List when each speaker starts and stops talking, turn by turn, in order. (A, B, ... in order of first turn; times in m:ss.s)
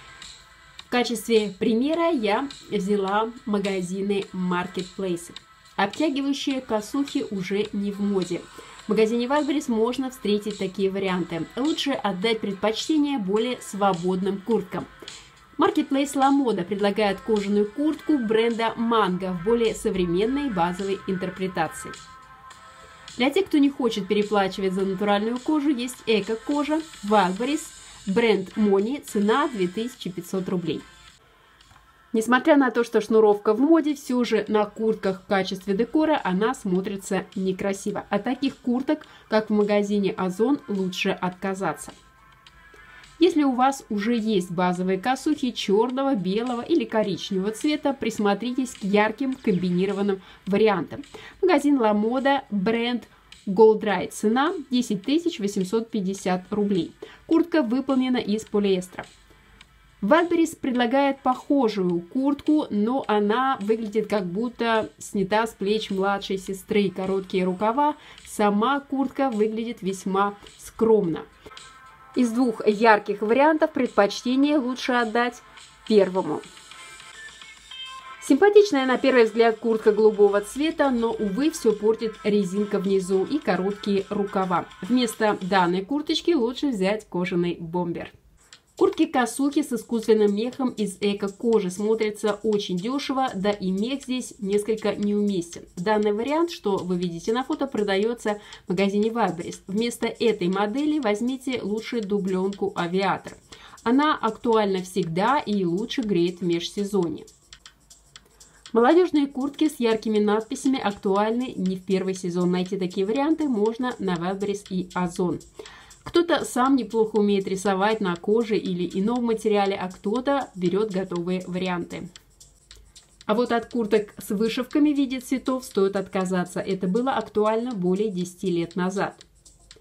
0:00.9-0:14.9 A
0:15.6-0:22.0 A
0:23.2-0:30.8 A
0:32.1-0:42.0 A
0:43.2-0:59.1 A
1:00.0-1:11.3 A
1:12.1-1:16.4 A
1:18.2-1:28.1 A
1:28.8-1:47.3 A
1:48.7-1:55.4 A
1:56.0-2:02.1 A
2:03.3-2:09.2 A